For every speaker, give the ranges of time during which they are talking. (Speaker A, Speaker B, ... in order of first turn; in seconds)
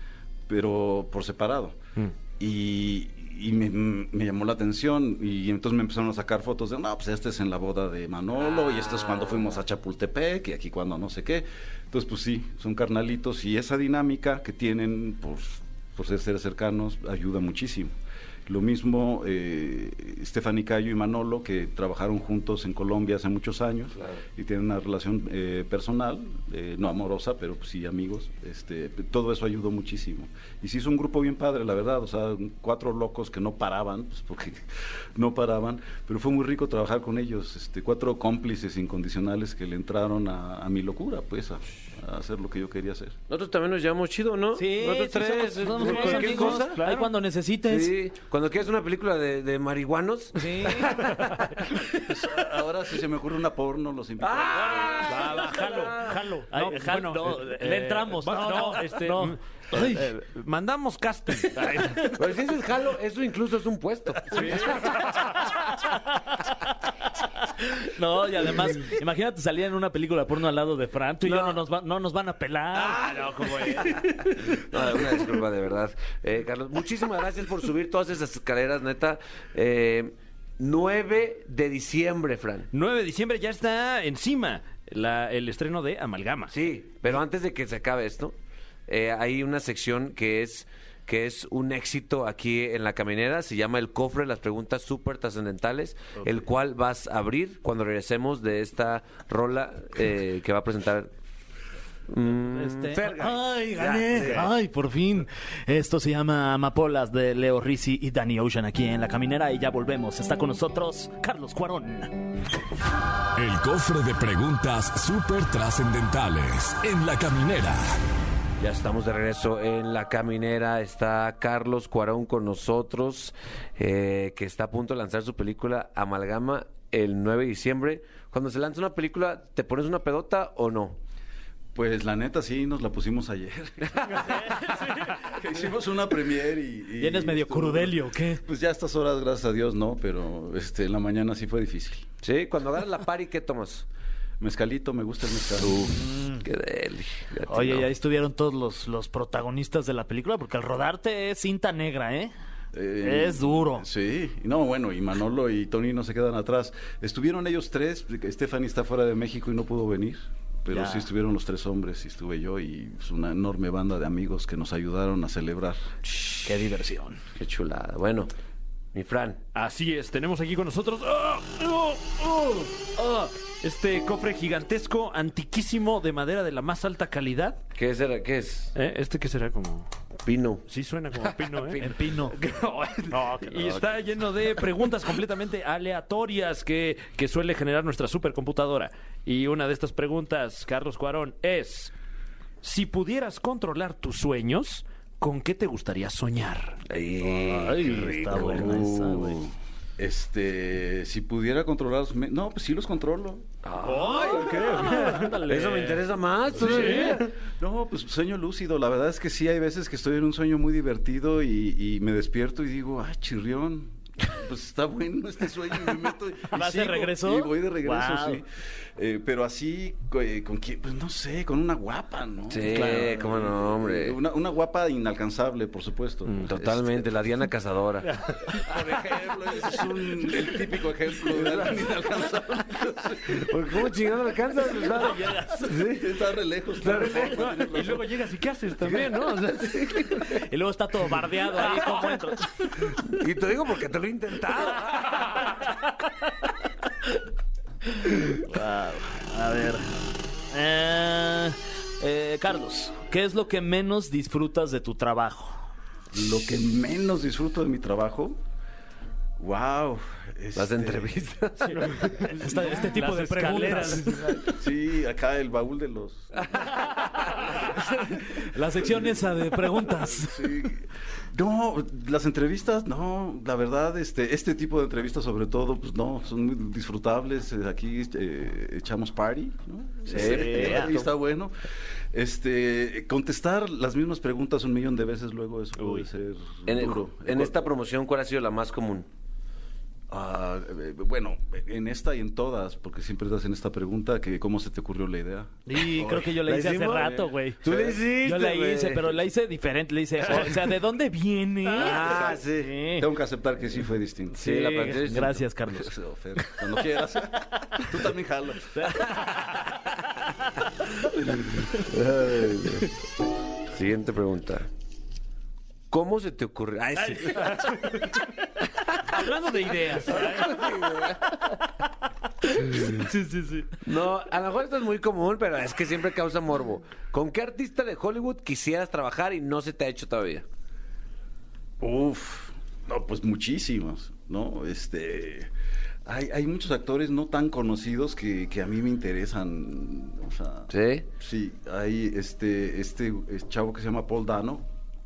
Speaker A: 0.5-1.8, 2.4-17.9, 18.5-43.1, 52.0-55.2, 131.7-142.1, 144.4-145.9, 152.7-165.9, 198.3-203.5, 206.5-227.1, 228.5-233.9, 235.4-238.1, 256.1-258.4, 259.4-261.3, 264.5-266.9, 268.7-281.5, 282.1-287.7, 290.1-296.2, 297.6-297.9, 301.8-304.4, 305.7-309.0, 331.8-335.5, 336.0-344.7
Speaker B: 8.5-9.4, 43.3-46.8, 47.6-51.9, 54.2-56.2, 62.1-64.9, 71.2-71.6, 72.7-82.7, 86.5-88.3, 88.9-101.1, 102.1-104.5, 118.6-131.0, 142.2-143.8, 145.6-147.9, 167.3-168.3, 168.9-169.4, 177.8-178.7, 180.2-180.6, 181.2-181.9, 183.5-183.8, 196.9-198.8, 203.6-207.3, 222.5-224.2, 226.4-228.1, 231.4-231.6, 233.3-236.1, 236.8-237.4, 238.8-240.3, 243.0-245.3, 260.5-262.3, 266.5-267.2, 280.1-281.0, 286.7-289.1, 296.0-299.1, 301.7-302.5, 304.4-305.4, 311.7-312.9, 313.7-314.7, 315.9-318.0, 319.9-321.2, 323.8-330.4, 340.7-341.1
Speaker C: 44.5-47.9, 50.3-51.0, 56.5-60.1, 64.3-64.8, 65.4-66.2, 67.6-74.2, 102.4-112.2, 137.0-138.4, 145.9-146.4, 147.5-152.3, 153.0-153.8, 160.7-161.1, 166.4-167.2, 181.8-182.3, 197.2-199.4, 203.8-205.9, 216.5-218.4, 222.8-223.0, 234.8-235.5, 240.3-242.7, 248.3-249.9, 250.5-255.7, 262.2-264.4, 268.0-270.7, 280.1-281.0, 295.7-303.1, 304.4-306.6, 308.8-309.2, 322.8-323.6
Speaker D: 45.6-47.1, 55.0-62.2, 64.3-65.1, 73.3-73.8, 82.7-86.5, 169.5-177.6, 178.7-179.9, 180.7-191.9, 192.6-196.8, 204.0-206.0, 206.6-207.3, 237.1-239.8, 261.7-264.5, 317.2-318.2, 319.1-320.7
Speaker E: 113.3-118.0